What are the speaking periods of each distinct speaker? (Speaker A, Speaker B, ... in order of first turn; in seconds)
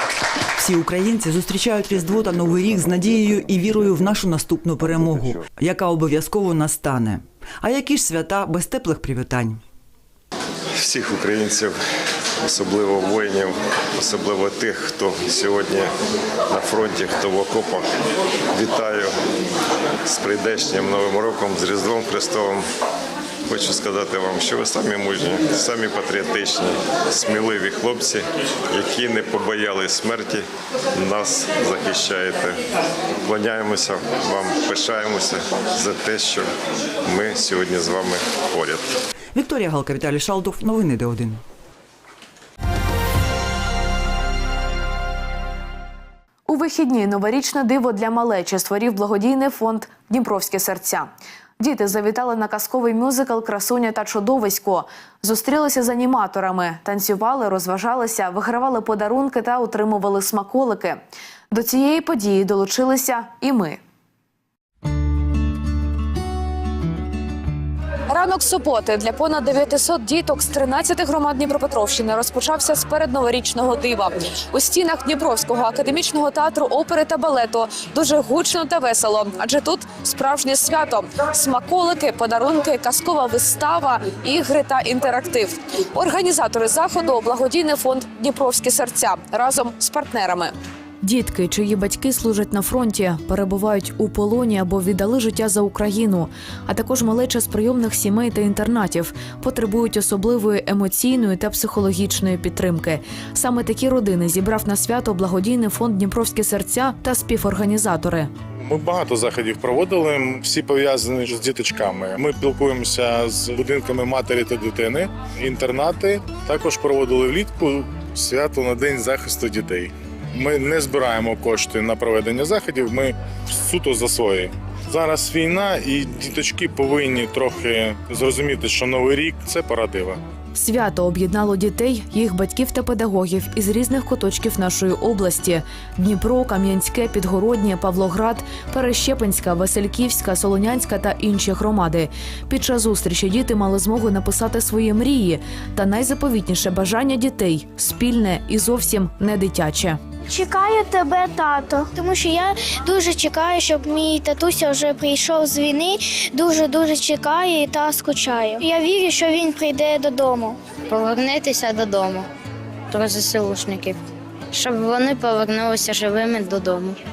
Speaker A: 0.6-9.6, 39.3-41.4
Speaker B: 10.8-11.8, 12.4-15.9, 16.5-17.9, 18.5-19.1, 20.0-22.6, 23.5-32.6, 33.2-36.5, 37.0-38.9
Speaker C: 46.5-63.8, 68.1-108.3, 130.5-150.0
Speaker D: 108.6-130.2
Speaker E: 150.3-160.7
Speaker F: 160.9-162.2, 162.9-163.9, 164.5-166.9